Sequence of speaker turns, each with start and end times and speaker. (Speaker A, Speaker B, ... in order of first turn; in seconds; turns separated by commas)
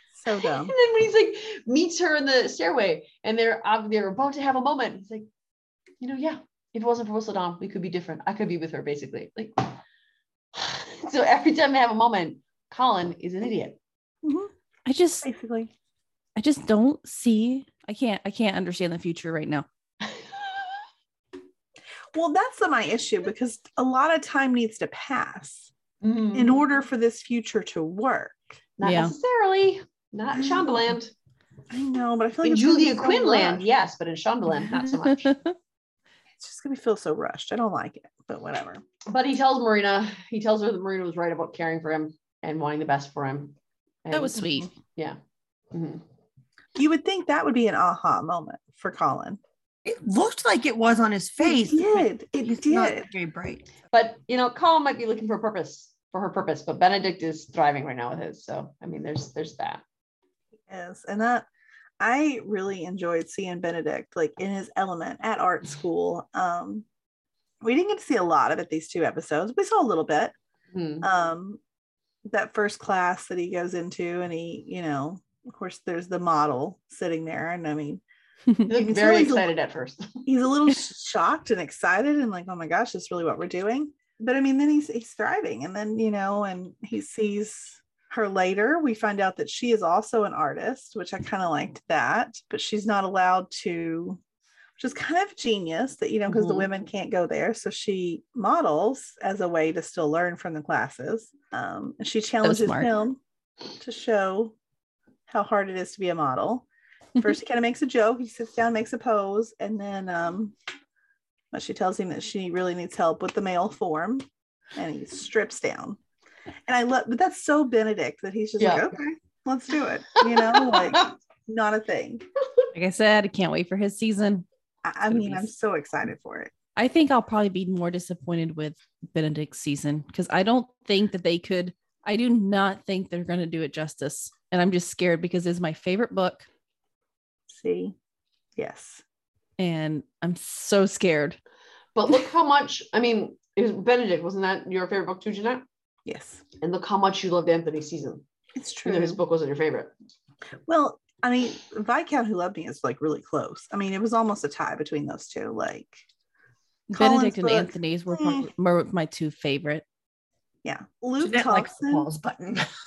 Speaker A: 0.1-0.7, Speaker B: 0.3-5.3, Speaker B: 6.0-9.8, Speaker B: 10.5-13.8, Speaker A: 14.2-14.5, Speaker C: 14.9-15.3, Speaker A: 15.2-15.7, Speaker C: 16.4-19.7, Speaker B: 20.0-20.8, Speaker A: 22.1-25.7, Speaker B: 26.0-26.6, Speaker A: 26.3-28.4, Speaker B: 28.8-31.1, Speaker C: 28.8-29.1, Speaker A: 30.3-31.0, Speaker A: 31.7-33.6, Speaker B: 32.4-35.4, Speaker C: 35.2-35.5, Speaker A: 36.4-38.8, Speaker B: 39.1-45.2, Speaker C: 44.1-44.7, Speaker B: 45.7-46.0, Speaker A: 46.8-49.4, Speaker D: 49.9-53.8, Speaker A: 51.4-53.1, Speaker B: 53.9-59.8, Speaker A: 60.7-61.5, Speaker A: 62.0-66.8, Speaker A: 67.6-70.3, Speaker B: 70.7-71.1, Speaker A: 71.0-71.6, Speaker A: 72.3-78.0, Speaker B: 78.7-80.3, Speaker A: 78.7-79.5, Speaker A: 80.3-94.2, Speaker A: 94.8-103.2, Speaker B: 96.3-96.7, Speaker C: 102.4-102.9, Speaker A: 103.8-104.5, Speaker A: 105.3-106.7, Speaker A: 107.2-110.5, Speaker A: 111.5-116.0, Speaker A: 116.7-122.2, Speaker B: 118.6-118.9, Speaker B: 120.2-121.1, Speaker C: 122.7-124.5, Speaker A: 124.8-126.5, Speaker C: 125.1-125.5, Speaker C: 126.8-136.5, Speaker A: 137.5-137.9, Speaker A: 138.6-139.0, Speaker C: 139.6-141.4, Speaker B: 142.0-145.6, Speaker A: 146.1-146.4, Speaker B: 146.6-148.2, Speaker A: 148.6-149.2, Speaker B: 148.8-149.9, Speaker A: 150.7-156.0, Speaker C: 156.9-159.8, Speaker A: 156.9-158.5, Speaker A: 160.6-162.1, Speaker D: 161.2-162.7